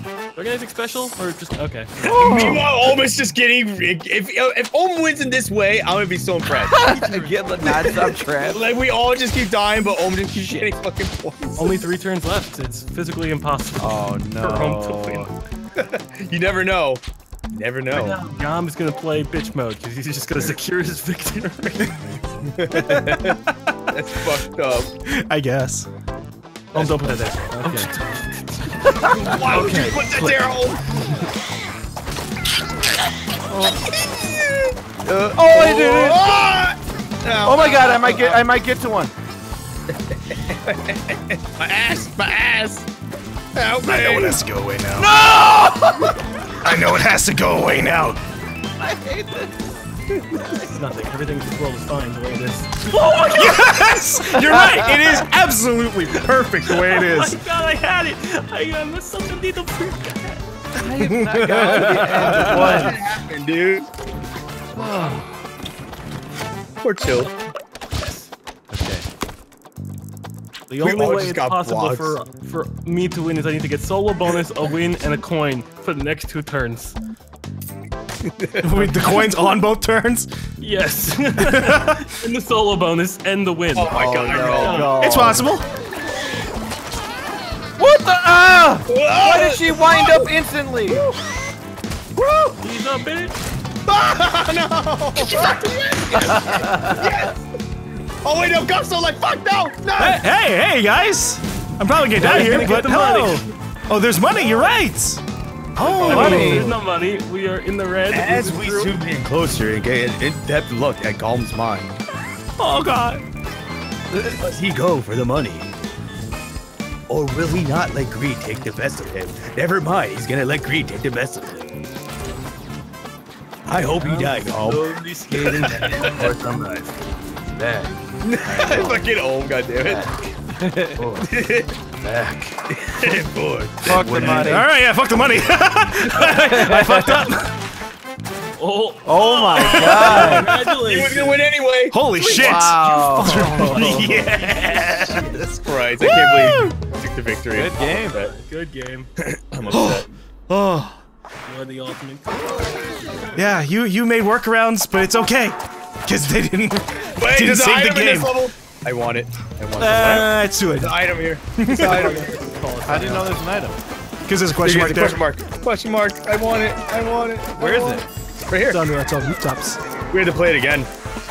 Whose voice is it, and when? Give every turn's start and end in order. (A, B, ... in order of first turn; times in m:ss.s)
0:00.4-0:02.2 A
0:02.0-0:02.7 B
0:02.1-0:06.9 C
0:06.6-0:08.6 B
0:06.7-0:07.8 A
0:07.7-0:11.8 C
0:10.3-0:10.7 A
0:11.6-0:15.3 A
0:13.8-0:15.3 B
0:15.8-0:18.2 C
0:17.9-0:22.1 A
0:22.6-0:24.9 C
0:22.7-0:23.4 D
0:25.1-0:25.9 D
0:26.7-0:31.2 A
0:27.6-0:27.9 B
0:28.9-0:29.4 B
0:29.2-0:30.8 C
0:33.5-0:33.8 B
0:33.9-0:38.4 C
0:35.0-0:36.4 B
0:37.4-0:39.1 B
0:40.1-0:42.8 C
0:43.5-0:44.4 C
0:43.8-0:45.2 D
0:44.9-0:46.2 B
0:46.6-0:48.2 D
0:48.8-0:49.5 B
0:50.1-0:50.4 C
0:50.3-0:53.8 A
0:50.3-0:50.7 B
0:53.3-0:57.4 D
0:54.4-0:55.2 B
0:56.7-1:00.4 A
1:00.8-1:03.0 B
1:00.8-1:02.9 D
1:01.3-1:03.9 C
1:04.7-1:05.3 B
1:06.8-1:07.3 C
1:08.0-1:08.3 A
1:08.7-1:09.0 B
1:10.7-1:17.0 A
1:10.8-1:12.2 C
1:18.4-1:19.2 C
1:18.6-1:20.3 D
1:20.6-1:25.0 A
1:21.4-1:22.1 D
1:23.7-1:25.0 C
1:23.9-1:25.5 B
1:25.0-1:25.7 D
1:27.8-1:31.0 B
1:28.9-1:30.3 C
1:30.8-1:31.2 C
1:32.2-1:32.5 C
1:32.6-1:33.4 A
1:33.8-1:37.5 C
1:36.2-1:37.1 B
1:38.2-1:40.2 C
1:40.0-1:45.2 D
1:42.2-1:43.5 A
1:45.8-1:46.8 D
1:45.8-1:46.6 C
1:46.0-1:49.0 A
1:46.1-1:46.8 B
1:48.1-1:52.0 C
1:52.6-1:53.2 D
1:54.1-1:54.4 B
1:54.4-1:55.7 C
1:57.1-2:01.8 C
2:03.7-2:06.3 C
2:03.9-2:08.0 A
2:08.2-2:10.2 C
2:08.4-2:09.0 B
2:10.6-2:11.0 B
2:11.0-2:11.3 A
2:11.2-2:11.7 C
2:12.0-2:12.6 A
2:12.7-2:14.6 C
2:13.8-2:14.7 B
2:13.9-2:14.5 A
2:14.2-2:17.5 D
2:16.2-2:16.6 A
2:16.2-2:17.3 B
2:18.6-2:21.4 A
2:19.0-2:20.6 B
2:19.5-2:22.0 C
2:21.9-2:26.7 D
2:22.2-2:24.6 A
2:22.2-2:24.4 B
2:25.5-2:28.3 C
2:27.5-2:28.2 B
2:27.8-2:29.1 A
2:29.2-2:30.1 C
2:29.7-2:31.0 D
2:31.4-2:33.3 A
2:33.3-2:38.4 D
2:37.2-2:42.4 C
2:39.8-2:41.0 D
2:41.6-2:42.2 D
2:41.7-2:43.4 A
2:42.8-2:43.8 B
2:44.2-2:45.2 D
2:44.6-2:48.8 C
2:47.6-2:48.0 B
2:48.6-2:49.8 D
2:50.1-2:50.9 C